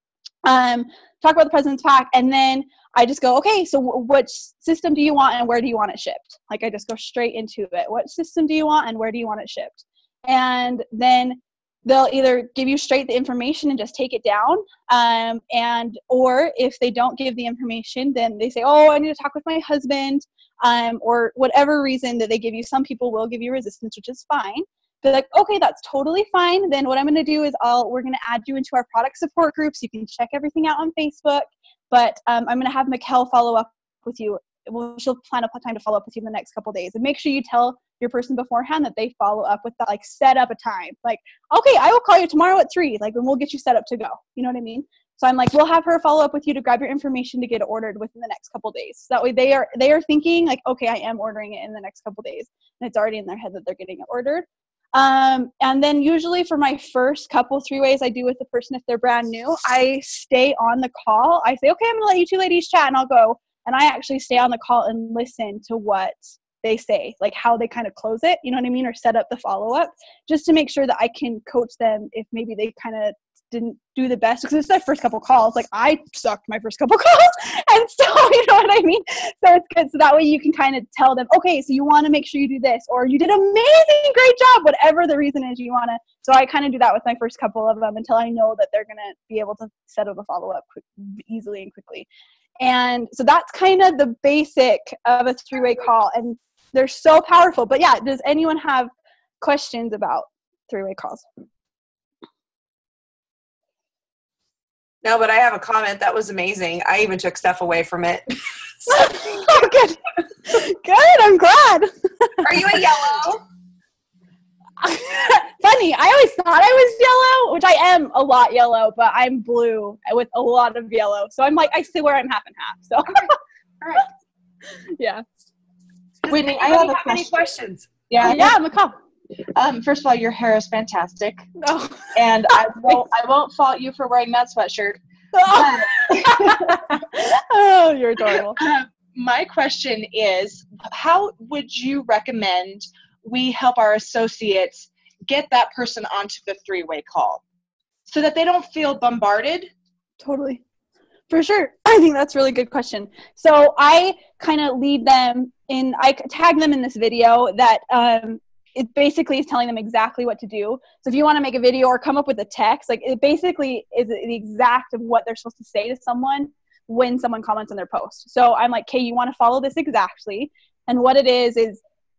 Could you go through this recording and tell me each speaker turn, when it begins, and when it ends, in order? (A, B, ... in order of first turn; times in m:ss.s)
0:00.4-1:32.1 A
1:32.6-1:41.2 A
1:45.0-1:49.5 B
1:48.9-1:52.5 A
1:52.4-1:53.4 B
1:54.8-2:03.4 A
2:03.8-2:04.1 B
2:05.0-2:05.2 A
2:06.2-2:08.1 B
2:06.3-2:07.3 C
2:08.1-2:08.5 C
2:08.2-2:09.0 A
2:09.6-2:11.5 C
2:11.6-2:12.1 A
2:12.2-2:15.0 C
2:15.3-2:18.6 A
2:15.5-2:16.8 C
2:18.6-2:27.4 C
2:28.1-2:29.7 C
2:30.2-2:30.6 A
2:31.3-2:51.8 A